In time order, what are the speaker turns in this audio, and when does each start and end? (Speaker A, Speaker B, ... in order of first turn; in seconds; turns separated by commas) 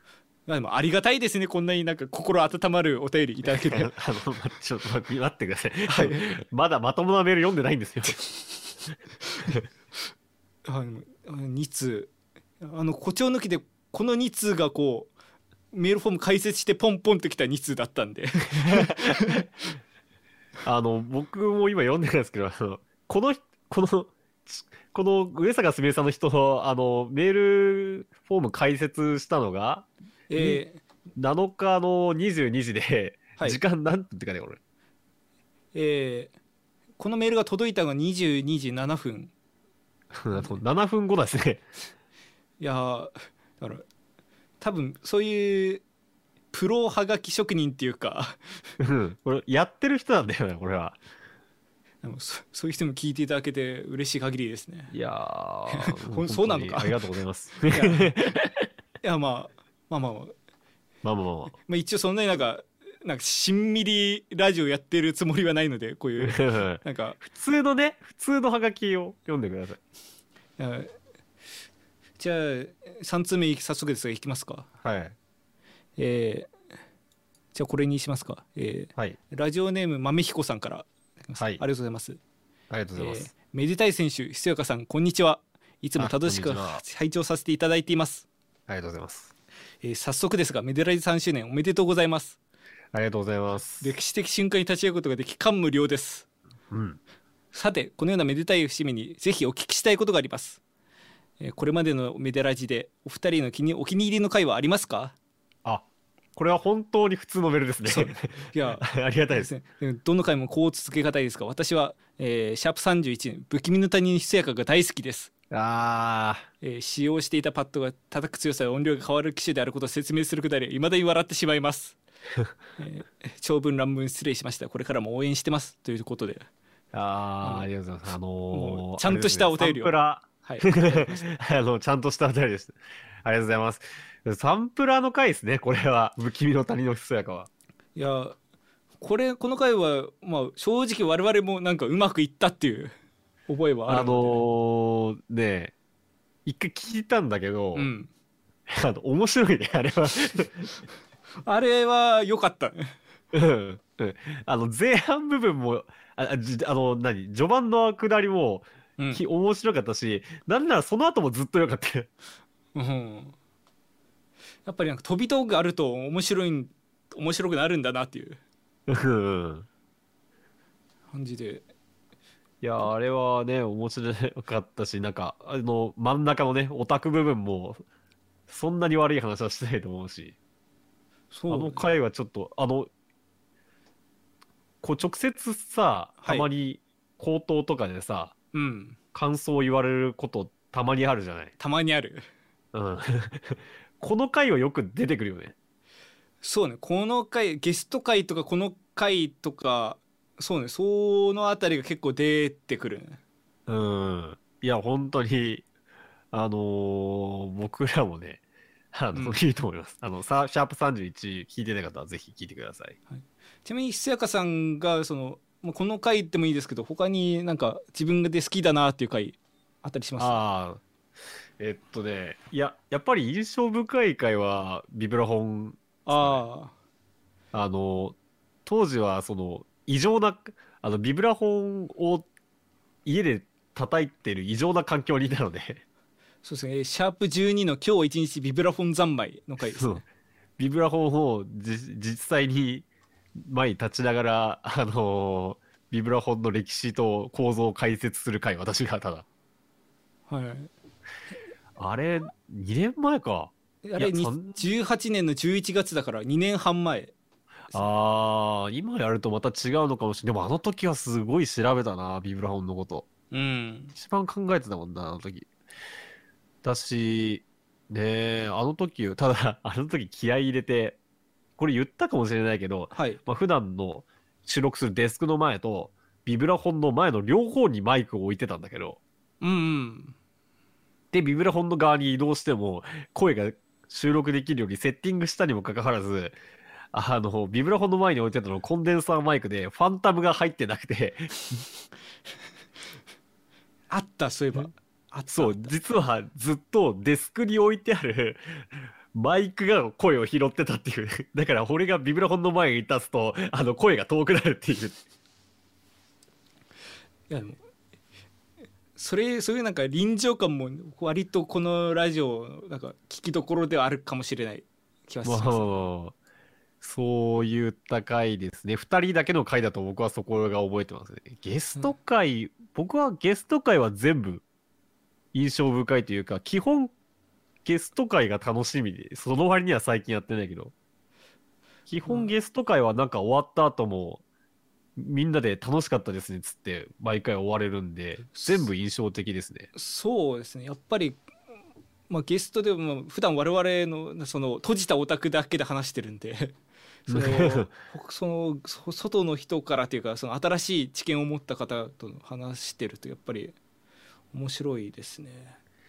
Speaker A: 0.5-3.9, Speaker B: 3.4-8.3, Speaker A: 5.9-6.3, Speaker A: 10.6-15.1, Speaker A: 15.7-19.4, Speaker B: 18.6-19.4, Speaker B: 20.6-30.6, Speaker A: 30.3-30.8, Speaker B: 31.1-34.6, Speaker A: 35.7-36.3, Speaker A: 37.0-39.3, Speaker B: 40.1-41.6, Speaker A: 42.6-43.9, Speaker A: 44.6-45.8, Speaker A: 46.5-48.4, Speaker B: 48.8-51.0, Speaker A: 52.0-54.9, Speaker B: 54.9-58.5, Speaker A: 55.7-57.0, Speaker A: 57.7-58.4, Speaker A: 59.0-60.3, Speaker B: 61.0-61.5, Speaker A: 61.6-67.2, Speaker B: 66.2-69.8, Speaker A: 70.6-70.9, Speaker A: 72.2-74.7, Speaker B: 74.8-75.1, Speaker A: 76.0-76.5, Speaker A: 77.5-82.2, Speaker B: 82.7-83.3, Speaker A: 83.0-88.2, Speaker B: 86.0-86.8, Speaker B: 88.7-89.3, Speaker A: 89.8-92.4, Speaker B: 92.9-93.9, Speaker A: 93.8-96.2, Speaker B: 96.7-97.0, Speaker A: 97.5-100.6, Speaker A: 101.4-105.1, Speaker B: 105.6-109.5, Speaker A: 107.8-115.3, Speaker B: 115.5-116.5, Speaker A: 116.6-122.0, Speaker A: 122.8-126.5, Speaker B: 126.9-137.5, Speaker A: 127.4-127.7, Speaker A: 128.5-131.2, Speaker A: 137.9-138.3, Speaker A: 139.0-142.9, Speaker A: 143.5-144.4, Speaker B: 143.9-145.7, Speaker B: 146.4-147.9, Speaker A: 147.7-148.1, Speaker B: 148.7-150.7, Speaker A: 151.4-152.9, Speaker B: 153.3-162.1, Speaker A: 162.7-163.3, Speaker A: 164.6-168.4, Speaker B: 168.9-169.7, Speaker A: 171.1-171.7, Speaker B: 172.6-177.8, Speaker B: 178.5-180.3, Speaker A: 181.3-181.9, Speaker B: 181.5-182.9, Speaker B: 184.8-188.3, Speaker A: 186.2-186.5, Speaker A: 188.5-189.0, Speaker B: 189.1-191.5, Speaker A: 191.6-192.2, Speaker B: 192.7-195.5, Speaker A: 196.4-203.2, Speaker B: 203.7-205.7, Speaker B: 206.3-208.4, Speaker B: 208.9-212.9, Speaker A: 209.1-209.4, Speaker A: 213.1-220.4, Speaker B: 220.2-220.8, Speaker B: 221.6-226.4, Speaker A: 226.1-226.7, Speaker B: 227.5-232.3, Speaker B: 233.0-235.8, Speaker A: 236.4-240.0, Speaker B: 239.6-240.0, Speaker B: 240.6-249.2, Speaker A: 250.3-250.7, Speaker B: 251.8-254.6, Speaker A: 253.8-257.1, Speaker B: 257.7-263.1, Speaker A: 263.3-263.9, Speaker B: 263.9-265.5, Speaker B: 266.6-271.0, Speaker B: 271.6-279.0, Speaker A: 272.9-273.2, Speaker A: 279.4-280.1, Speaker B: 281.1-286.4, Speaker B: 286.9-291.6, Speaker A: 293.9-295.7, Speaker B: 295.3-305.0, Speaker A: 307.3-307.6, Speaker A: 308.9-315.7, Speaker B: 315.2-316.1, Speaker B: 316.8-324.4, Speaker B: 325.3-326.9, Speaker B: 327.6-330.7, Speaker B: 331.9-334.2, Speaker A: 332.0-332.3, Speaker B: 334.9-339.7, Speaker A: 338.3-338.6, Speaker A: 339.7-341.2, Speaker A: 342.1-346.6, Speaker A: 347.1-353.5, Speaker B: 347.1-347.7, Speaker A: 354.3-355.6